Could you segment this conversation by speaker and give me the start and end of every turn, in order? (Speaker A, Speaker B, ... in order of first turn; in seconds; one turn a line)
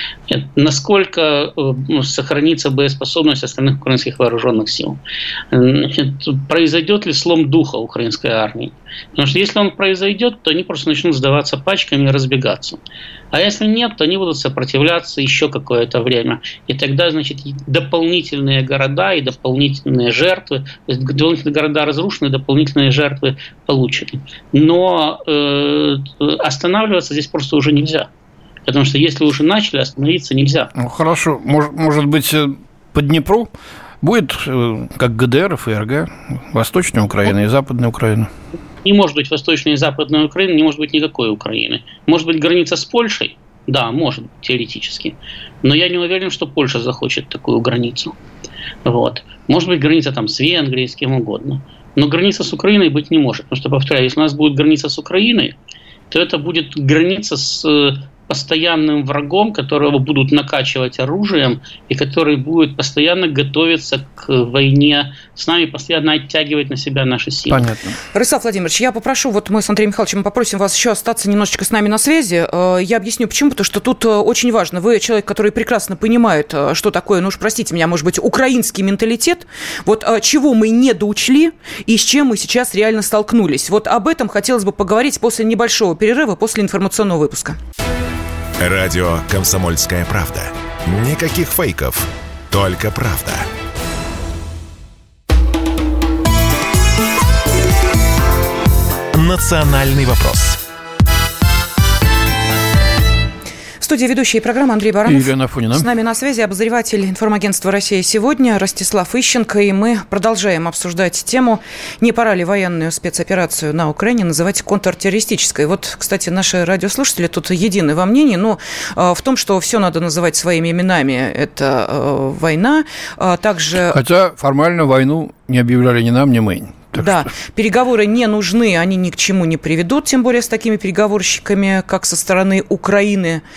Speaker A: 0.3-12.8
Speaker A: 13.3-28.1
Speaker A: 28.6-30.7
Speaker B: 30.7-38.3
Speaker A: 38.8-48.1
Speaker A: 48.8-55.5
Speaker A: 56.1-67.6
Speaker B: 67.5-68.0
Speaker C: 68.1-87.6
Speaker D: 88.6-93.5
Speaker D: 99.1-100.6
Speaker C: 103.8-124.0
Speaker B: 105.0-105.9
Speaker B: 123.9-127.2
Speaker C: 127.0-133.4